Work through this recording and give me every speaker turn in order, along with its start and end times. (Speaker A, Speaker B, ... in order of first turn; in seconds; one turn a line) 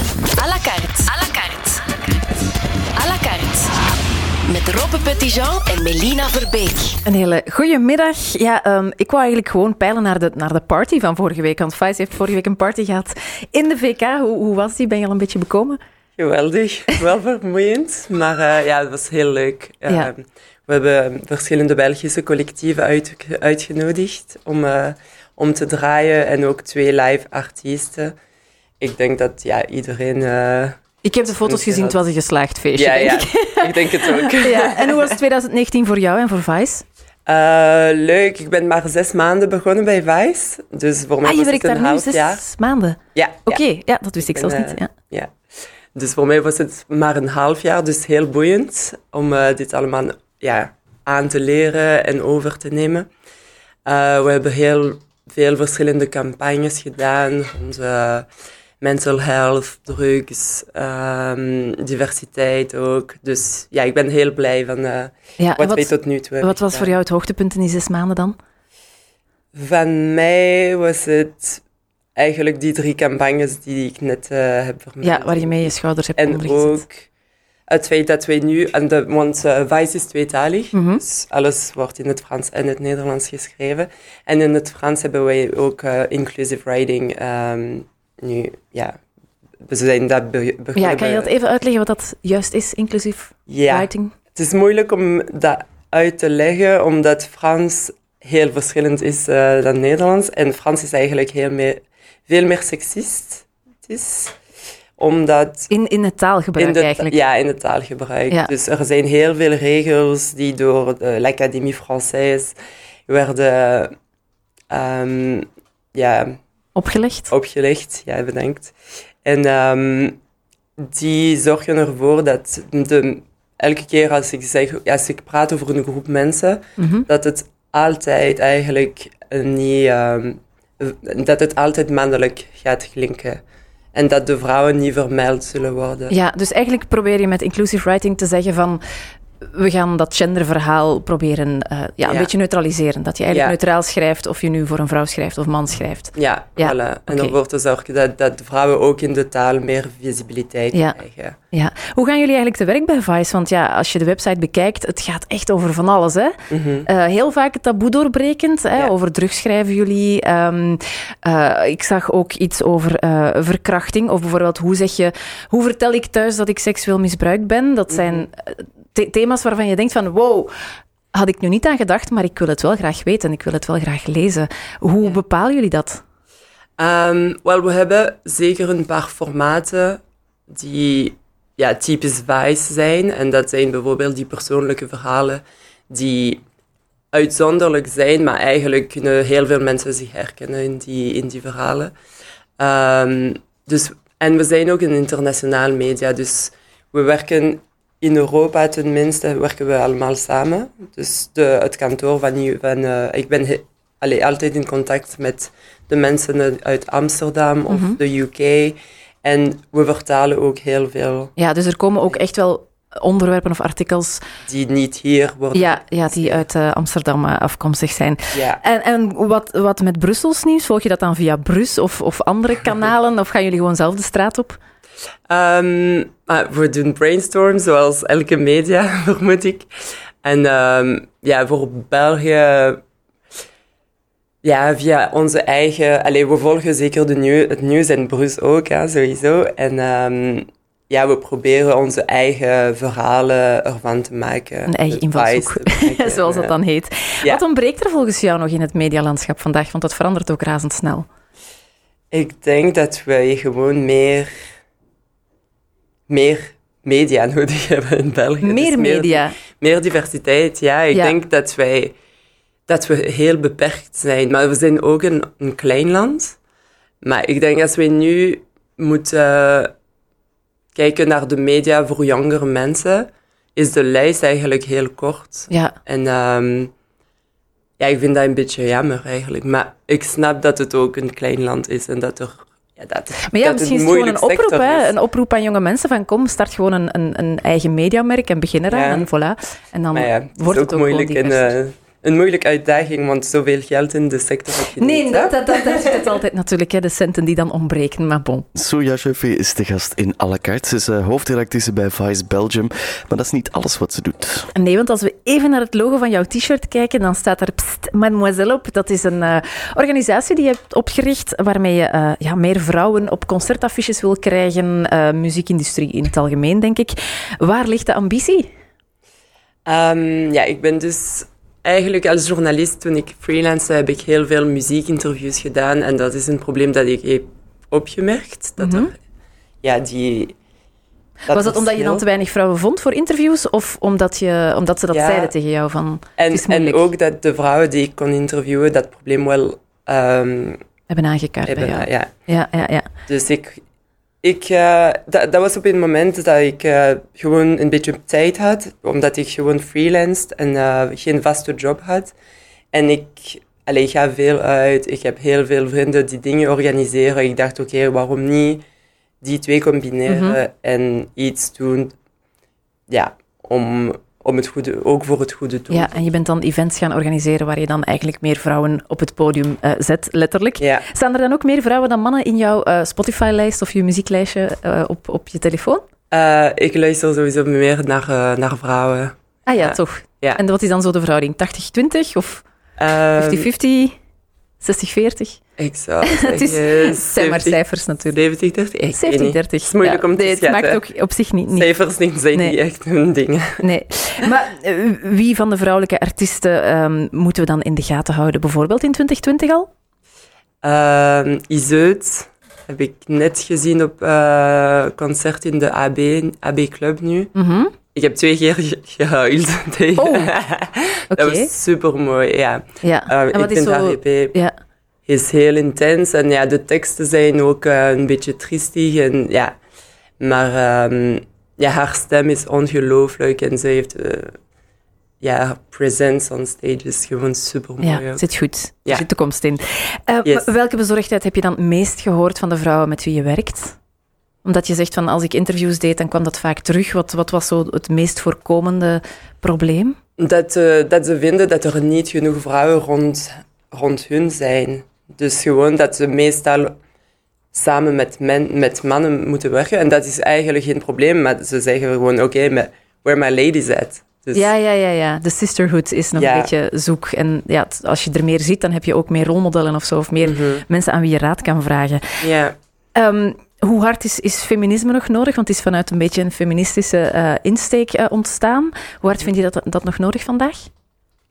Speaker A: 0.3-2.0
Speaker A: 2.9-3.8
Speaker A: 4.4-7.0
Speaker B: 7.0-15.8
Speaker C: 16.2-28.1
Speaker C: 28.8-32.0
Speaker B: 31.0-36.8
Speaker C: 32.8-35.1
Speaker C: 37.2-42.4
Speaker B: 41.2-44.9
Speaker C: 43.1-43.6
Speaker C: 44.2-45.3
Speaker C: 45.9-53.1
Speaker C: 53.8-58.3
Speaker C: 58.8-66.9
Speaker B: 65.4-68.4
Speaker C: 69.5-71.6
Speaker C: 72.2-77.0
Speaker B: 75.0-76.8
Speaker C: 77.7-89.0
Speaker B: 80.7-81.0
Speaker C: 89.6-91.3
Speaker B: 90.8-94.1
Speaker C: 93.5-104.3
Speaker C: 105.0-105.7
Speaker B: 105.7-107.2
Speaker C: 106.6-112.5
Speaker C: 113.1-113.9
Speaker C: 114.7-116.4
Speaker B: 116.8-117.3
Speaker C: 117.3-120.2
Speaker C: 120.8-133.4
Speaker B: 126.8-127.1
Speaker C: 133.9-136.1
Speaker B: 136.1-138.8
Speaker B: 139.4-147.3
Speaker C: 142.0-142.3
Speaker C: 143.3-143.6
Speaker C: 146.1-151.4
Speaker B: 150.7-151.0
Speaker B: 151.5-170.5
Speaker C: 156.5-156.9
Speaker C: 167.9-168.2
Speaker B: 171.1-176.0
Speaker C: 176.8-186.4
Speaker C: 187.1-191.9
Speaker C: 192.6-211.3
Speaker B: 207.7-208.0
Speaker B: 211.4-214.2
Speaker C: 214.4-216.4
Speaker B: 215.5-224.6
Speaker C: 218.3-218.6
Speaker C: 225.3-229.7
Speaker C: 230.2-232.8
Speaker C: 234.4-246.5
Speaker B: 244.7-251.1
Speaker C: 252.1-254.4
Speaker C: 256.1-261.9
Speaker B: 258.4-259.4
Speaker C: 262.7-266.4
Speaker C: 267.0-269.7
Speaker C: 270.7-276.7
Speaker C: 277.8-284.9
Speaker B: 283.2-291.6
Speaker C: 288.7-289.1
Speaker C: 289.9-296.0
Speaker B: 294.8-298.4
Speaker D: 298.6-304.5
Speaker B: 304.5-318.5
Speaker C: 319.6-329.0
Speaker B: 328.6-328.9
Speaker C: 329.6-330.4
Speaker C: 331.3-332.0
Speaker B: 331.3-336.9
Speaker C: 334.9-335.3
Speaker C: 336.2-340.6
Speaker B: 340.9-342.9
Speaker C: 341.5-342.1
Speaker C: 343.1-343.6
Speaker C: 344.2-352.1
Speaker C: 352.7-358.6
Speaker C: 359.2-361.9
Speaker B: 360.1-360.4
Speaker C: 362.9-366.1
Speaker B: 365.7-375.8
Speaker C: 370.6-370.8
Speaker C: 376.1-380.4
Speaker B: 379.5-382.4
Speaker C: 382.8-383.5
Speaker B: 383.2-383.9
Speaker B: 384.6-385.4
Speaker C: 385.6-390.8
Speaker B: 386.1-388.2
Speaker B: 388.9-391.7
Speaker C: 391.5-393.6
Speaker B: 393.6-399.7
Speaker C: 400.6-407.3
Speaker B: 407.3-407.7
Speaker C: 407.9-414.4
Speaker B: 410.0-410.3
Speaker B: 411.1-411.5
Speaker B: 412.8-414.5
Speaker C: 415.1-419.6
Speaker C: 420.2-424.4
Speaker C: 425.2-428.2
Speaker B: 427.8-433.8
Speaker B: 434.4-440.0
Speaker C: 440.2-446.8
Speaker C: 447.5-454.5
Speaker B: 454.3-462.2
Speaker C: 456.1-456.5
Speaker C: 460.2-460.6
Speaker C: 462.2-462.6
Speaker B: 462.9-470.7